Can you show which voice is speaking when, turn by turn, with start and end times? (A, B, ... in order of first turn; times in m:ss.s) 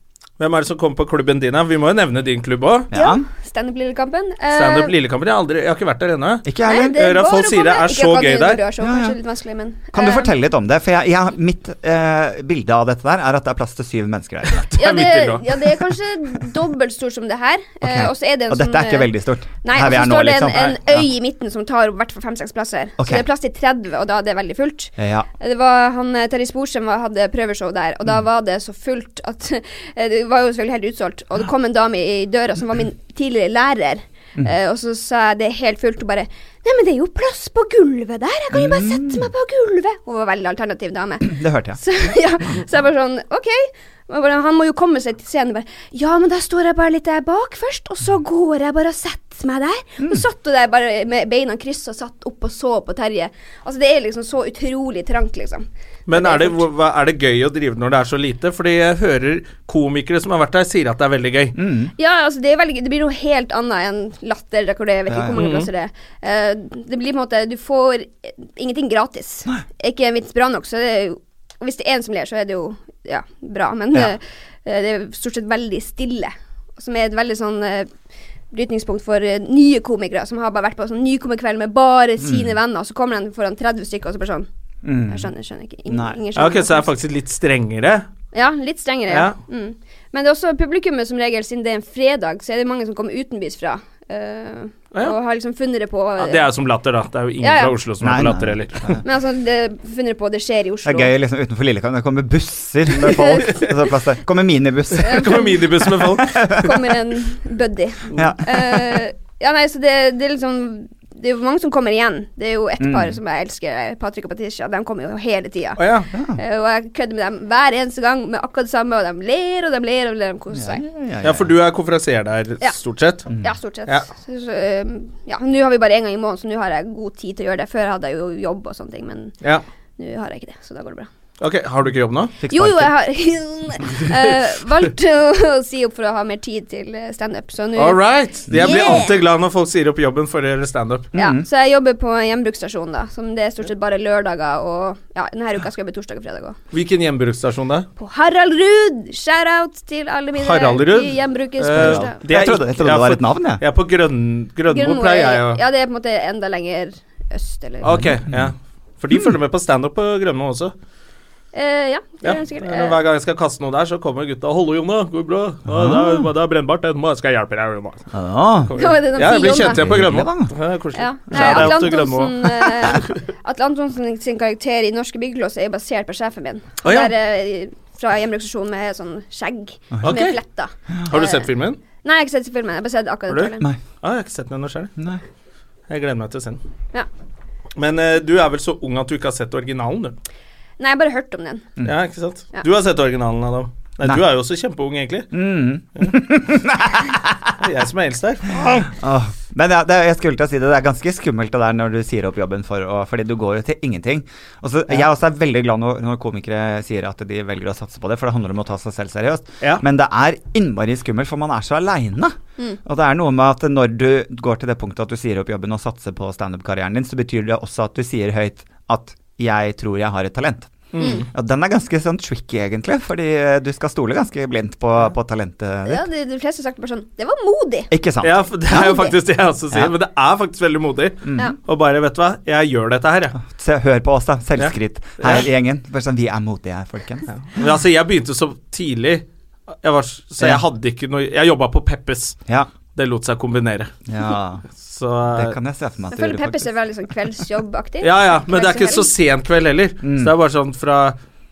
0:00.4-0:02.9 A
0:02.9-0:03.2 B
0:02.9-0:04.9 C
0:04.5-0:08.6 A
0:06.4-0:07.0 B
0:06.6-0:10.3 C
0:08.8-0:09.2 B
0:09.9-0:14.7 B
0:14.6-0:15.6 A
0:14.8-0:19.1 C
0:17.8-0:21.1 B
0:19.6-0:56.6 C
0:23.0-0:23.2 B
0:25.0-0:25.3 B
0:38.5-0:39.3 B
0:41.2-0:41.8 B
0:56.1-1:01.6 A
1:01.5-1:01.9 B
1:02.0-1:17.9 C
1:05.1-1:05.4 B
1:05.4-1:05.7 A
1:18.5-1:24.5 C
1:22.2-1:22.5 B
1:24.8-1:25.3 B
1:25.1-1:26.9 C
1:25.9-1:26.2 B
1:26.3-1:28.1 A
1:28.3-1:36.4 C
1:29.1-1:29.4 A
1:36.2-1:39.0 A
1:37.4-1:37.7 C
1:38.0-1:39.0 B
1:39.0-1:41.1 C
1:40.8-1:46.8 B
1:43.0-1:43.6 C
1:45.0-1:46.4 A
1:45.0-1:45.6 C
1:46.4-2:00.8 C
1:48.1-1:49.0 B
1:52.8-1:53.2 B
1:55.8-1:56.1 A
1:56.1-1:56.4 B
2:00.5-2:01.5 B
2:01.2-2:03.3 A
2:03.4-2:09.3 C
2:10.0-2:11.1 C
2:11.4-2:12.4 A
2:12.4-2:12.9 B
2:12.5-2:19.1 C
2:17.8-2:21.1 A
2:18.5-2:19.0 B
2:21.1-2:21.4 B
2:21.2-2:26.6 C
2:26.7-2:27.9 A
2:28.0-2:32.2 C
2:30.4-2:35.6 A
2:31.7-2:33.6 B
2:34.7-2:38.0 C
2:37.8-2:40.7 A
2:37.8-2:38.5 B
2:41.5-2:43.0 C
2:42.2-2:48.1 A
2:45.7-2:46.2 B
2:48.1-2:48.7 B
2:48.7-2:53.2 A
2:48.8-2:49.8 C
2:49.3-2:50.5 B
2:50.9-3:01.5 C
2:51.3-2:51.9 B
2:56.8-2:57.1 A
2:59.9-3:00.2 B
3:00.0-3:00.4 A
3:01.1-3:01.8 A
3:02.0-3:03.7 C
3:03.3-3:04.9 A
3:05.9-3:06.6 A
3:07.8-3:10.2 A
3:10.8-3:11.6 C
3:11.8-3:15.4 A
3:15.3-3:17.5 B
3:17.6-3:18.9 A
3:18.8-3:46.0 B
3:40.9-3:41.3 A
3:45.8-3:47.9 C
3:47.9-3:48.9 B
3:48.2-3:53.4 A
3:48.7-3:49.1 C
3:51.2-3:51.5 B
3:53.4-3:57.3 B
3:54.6-3:55.4 A
3:57.3-3:59.2 A
3:59.8-4:02.4 A
4:02.9-4:03.9 A
4:04.1-4:04.6 B
4:04.8-4:05.6 A
4:05.3-4:06.7 B
4:06.1-4:09.1 C
4:08.0-4:11.1 A
4:10.0-4:10.3 B